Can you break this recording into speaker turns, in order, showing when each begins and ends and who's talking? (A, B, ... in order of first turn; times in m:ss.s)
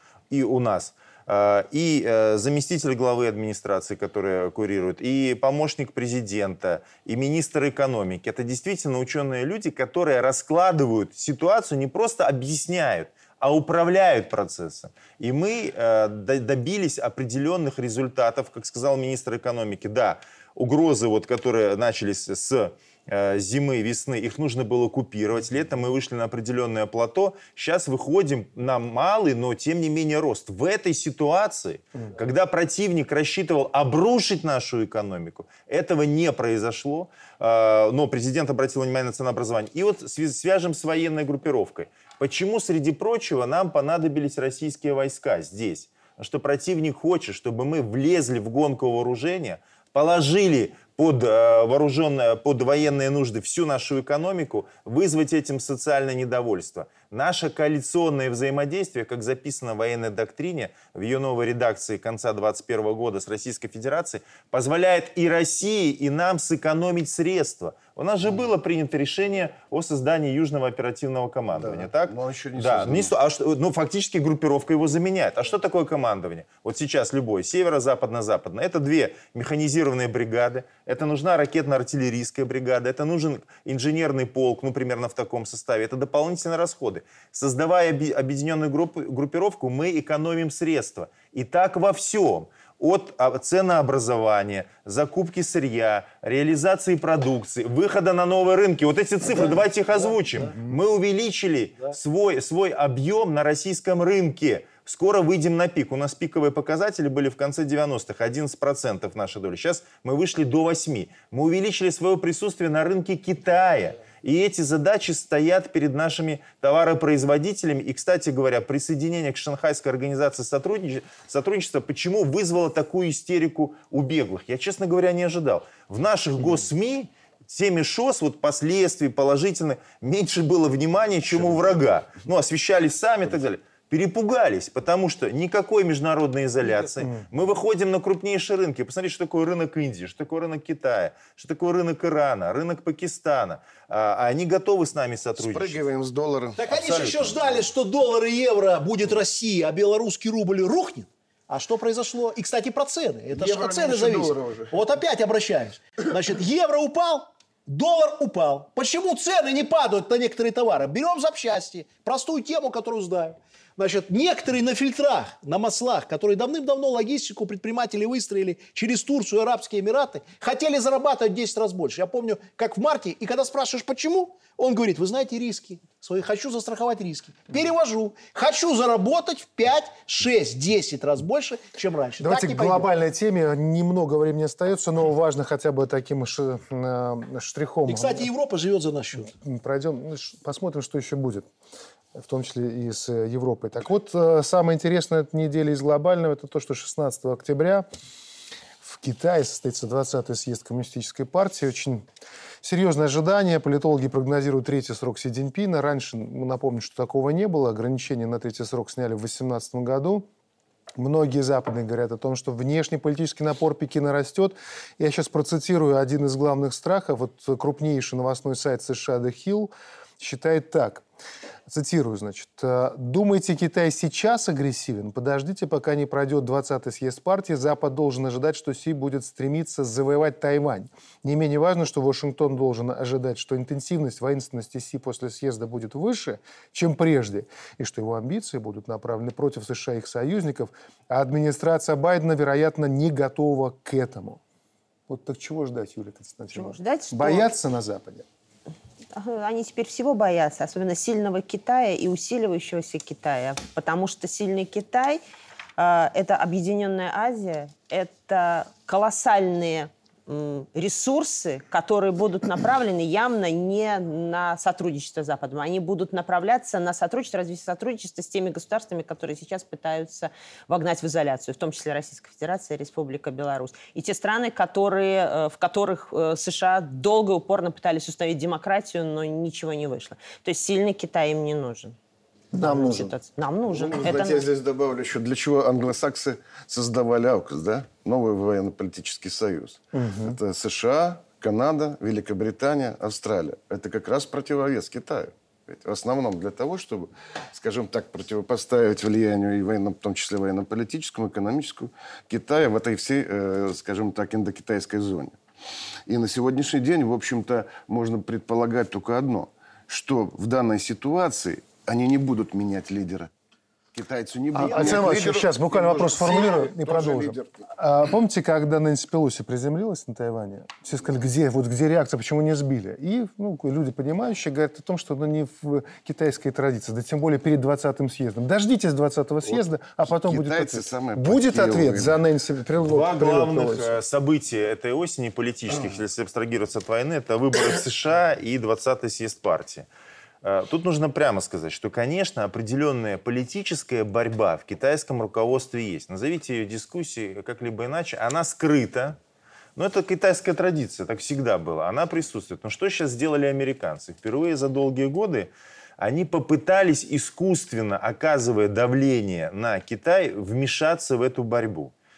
0:00.3-2:25.8 A
1:11.5-1:13.1 B
1:39.3-1:40.6 C
2:25.4-2:26.6 B
2:26.6-3:02.9 C
2:26.7-2:27.7 A
2:33.3-2:34.8 B
3:02.2-3:08.3 D
3:07.9-3:09.3 C
3:09.3-3:11.5 D
3:12.2-3:17.9 D
3:18.8-3:22.1 D
3:22.6-3:30.3 D
3:31.0-3:41.0 D
3:41.7-4:04.4 D
4:05.1-4:08.3 D
4:06.5-4:07.5 E
4:09.1-4:15.2 E
4:15.8-4:42.0 E
4:42.5-4:43.1 D
4:42.6-4:44.5 E
4:43.7-5:05.4 B
4:49.9-4:50.4 D
5:06.1-5:13.3 B
5:13.9-5:17.6 B
5:14.5-5:34.0 D
5:14.6-5:15.4 C
5:29.4-5:32.2 B
5:32.8-5:39.9 A
5:40.4-5:49.2 A
5:49.8-6:01.9 A